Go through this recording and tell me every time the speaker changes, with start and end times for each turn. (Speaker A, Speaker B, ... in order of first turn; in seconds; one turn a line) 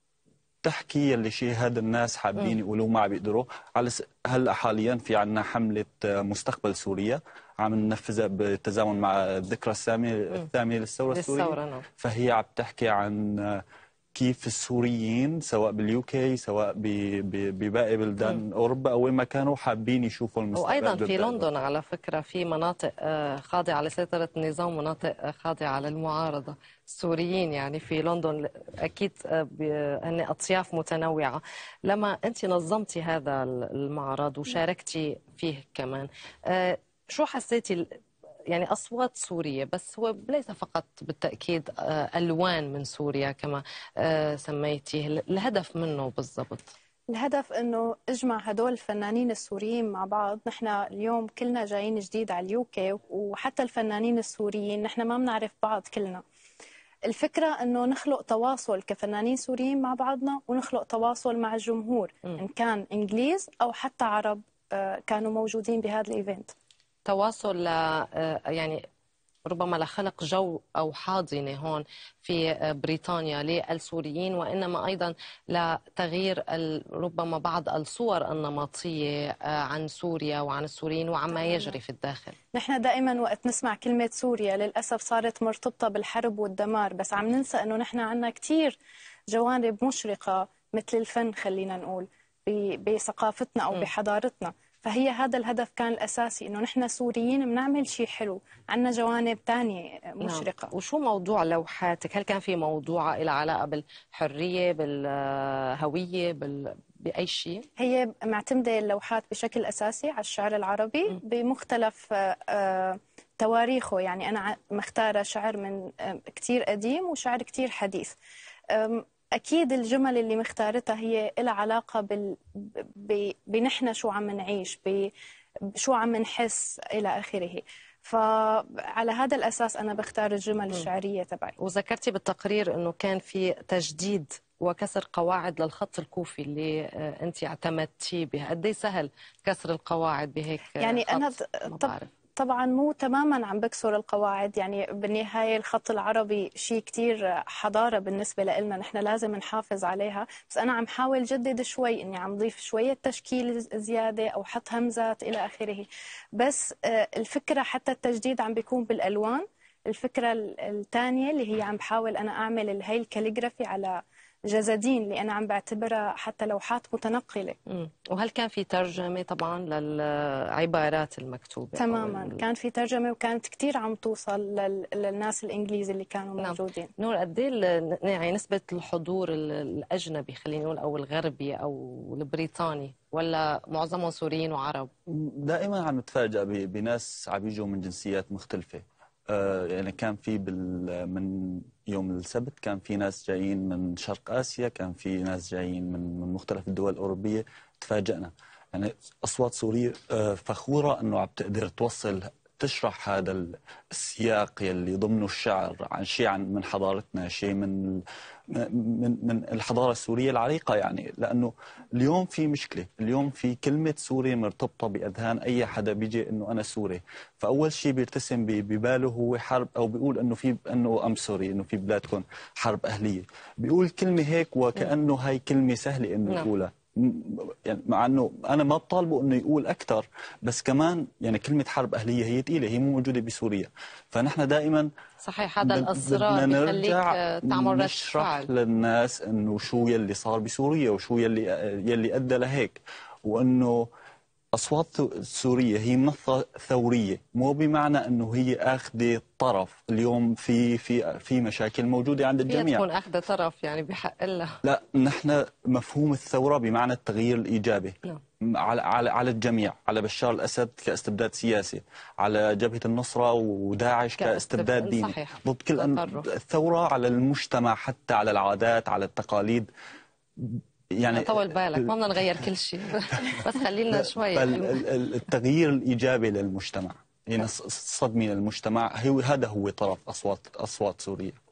Speaker A: 0.6-13.6
Speaker B: 11.1-11.8
Speaker A: 14.1-21.5
Speaker B: 20.5-46.7
Speaker C: 47.1-56.2
Speaker C: 57.1-66.5
Speaker B: 67.0-68.8
Speaker B: 69.4-82.4
Speaker C: 81.4-81.8
Speaker C: 82.5-88.8
Speaker C: 89.3-100.7
Speaker B: 100.2-107.7
Speaker C: 107.8-118.2
Speaker C: 118.7-125.1
Speaker C: 125.8-131.5
Speaker B: 131.6-142.1
Speaker C: 140.8-167.6
Speaker B: 167.7-172.4
Speaker C: 171.8-176.9
Speaker B: 176.4-184.9
Speaker A: 185.1-234.9
Speaker B: 235.2-238.5
Speaker A: 235.6-243.9
Speaker A: 244.5-252.8
Speaker B: 252.5-254.6
Speaker A: 254.6-269.7
Speaker B: 264.2-266.2
Speaker A: 270.4-271.9
Speaker B: 271.1-274.8
Speaker A: 273.9-281.4